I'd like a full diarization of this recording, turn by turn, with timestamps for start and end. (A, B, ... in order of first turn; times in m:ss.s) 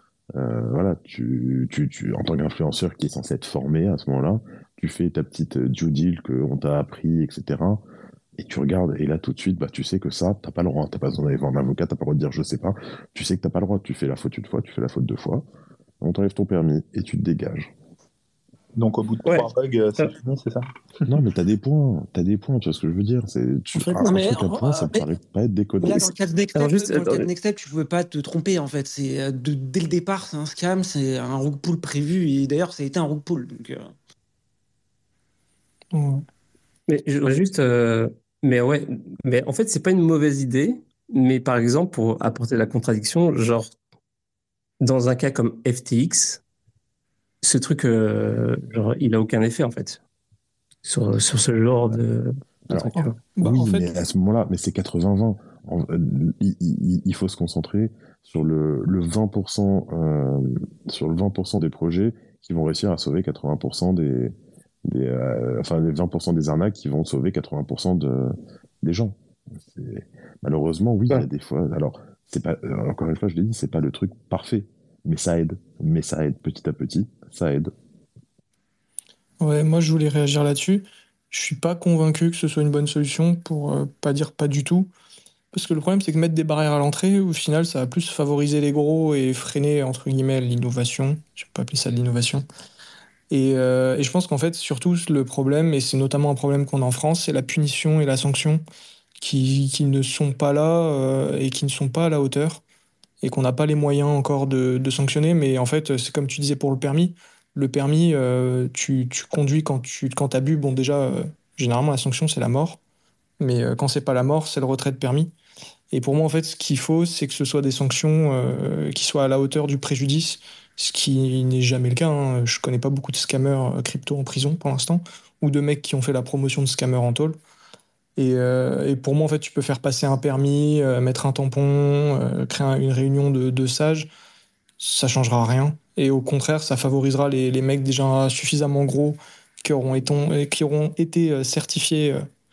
0:00.4-0:07.8 A
0:08.4-0:15.4 A
0:16.0-0:17.7 A
0:18.8-0:21.2 B
0:19.2-0:20.1 C
0:21.1-0:26.1 A
0:23.8-0:25.0 D
0:25.8-0:33.9 D
0:26.5-0:27.3 C
0:35.9-0:36.2 E
0:36.9-0:43.7 C
0:44.8-0:46.4 C
0:47.4-0:50.0 C
0:50.8-0:53.2 C
0:52.7-1:17.7 A
0:52.9-0:53.9 E
1:19.4-1:24.9 E
1:25.5-1:32.4 E
1:33.3-1:38.6 E
1:39.2-1:42.6 E
1:43.2-1:52.8 E
1:53.4-1:55.3 E
1:55.9-2:07.4 E
2:08.2-2:14.1 E
2:14.8-2:22.2 E